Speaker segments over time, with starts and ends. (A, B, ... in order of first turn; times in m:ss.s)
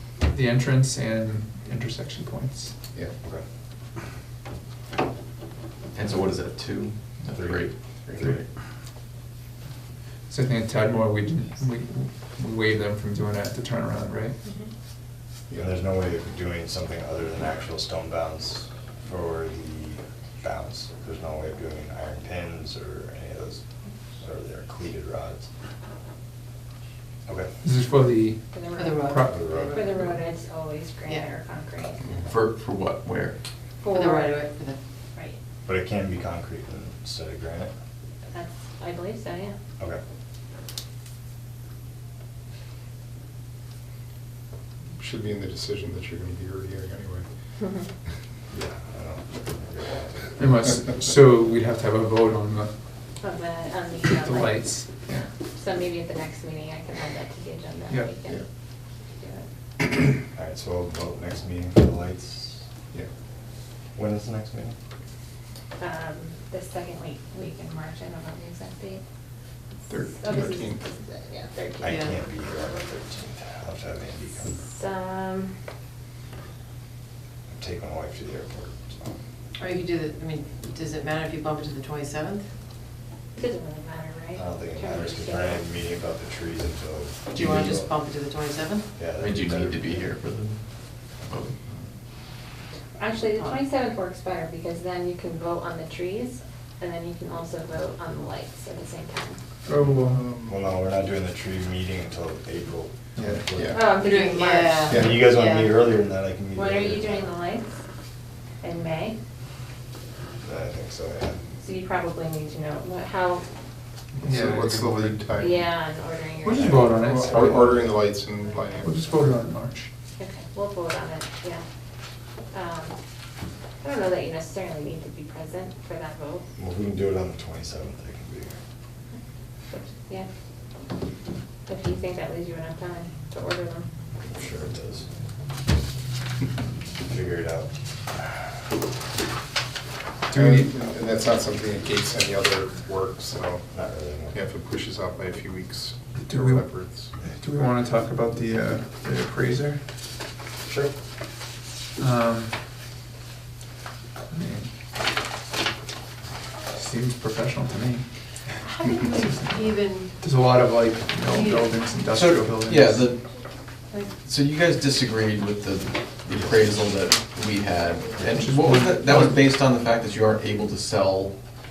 0:00.2-0:02.7 A
0:05.9-0:08.4 B
0:07.3-0:08.4 C
0:10.3-0:14.4 A
0:15.6-0:23.6 C
0:24.2-0:25.5 C
0:27.6-0:29.5 A
0:28.5-0:32.3 D
0:28.8-0:29.8 E
0:29.3-0:29.8 C
0:32.3-0:33.4 B
0:33.8-0:34.5 D
0:34.0-0:34.8 E
0:35.6-0:37.7 C
0:38.3-0:39.6 D
0:45.0-0:47.2 F
0:47.6-0:47.9 D
0:48.5-0:50.3 C
0:50.4-0:52.7 A
0:53.2-0:58.4 D
0:54.0-0:55.2 A
0:59.1-0:59.5 D
1:00.3-1:02.6 C
1:04.0-1:04.8 C
1:05.8-1:09.0 D
1:09.9-1:10.6 A
1:10.0-1:12.4 D
1:10.4-1:10.8 F
1:11.8-1:14.6 C
1:14.4-1:15.5 D
1:17.5-1:19.1 C
1:19.6-1:22.4 E
1:23.3-1:25.7 D
1:24.3-1:27.9 C
1:27.3-1:27.8 B
1:27.8-1:28.8 E
1:29.0-1:30.1 C
1:29.2-1:30.6 B
1:31.3-1:31.5 B
1:33.0-1:39.4 D
1:39.6-1:40.2 A
1:40.0-1:40.6 F
1:40.4-1:43.8 C
1:43.2-1:43.4 A
1:43.2-1:43.8 F
1:43.7-1:45.1 D
1:44.1-1:44.9 E
1:44.9-1:47.3 C
1:44.9-1:45.3 F
1:46.5-1:47.7 D
1:48.6-1:49.2 D
1:50.4-1:51.4 C
1:51.6-1:53.4 D
1:54.2-1:55.2 A
1:54.2-1:55.6 F
1:55.4-1:56.9 D
1:56.4-1:57.8 A
1:56.6-1:58.0 C
1:56.9-1:59.3 F
1:58.5-1:58.8 D
1:58.8-1:59.9 A
2:00.2-2:01.6 D
2:02.5-2:03.0 D
2:03.8-2:06.4 D
2:06.6-2:08.6 C
2:09.7-2:10.3 D
2:11.7-2:13.9 D
2:14.2-2:15.0 C
2:17.0-2:17.7 C
2:20.3-2:20.7 A
2:20.3-2:23.6 F
2:23.7-2:24.4 C
2:24.3-2:27.1 F
2:26.2-2:26.7 A
2:27.3-2:29.8 A
2:30.6-2:30.9 C
2:32.0-2:32.5 A
2:34.3-2:34.7 A
2:36.7-2:38.0 A
2:38.9-2:43.1 A
2:39.5-2:40.1 E
2:41.4-2:41.6 E
2:42.1-2:43.2 B
2:44.1-2:51.4 B
2:48.2-2:49.4 A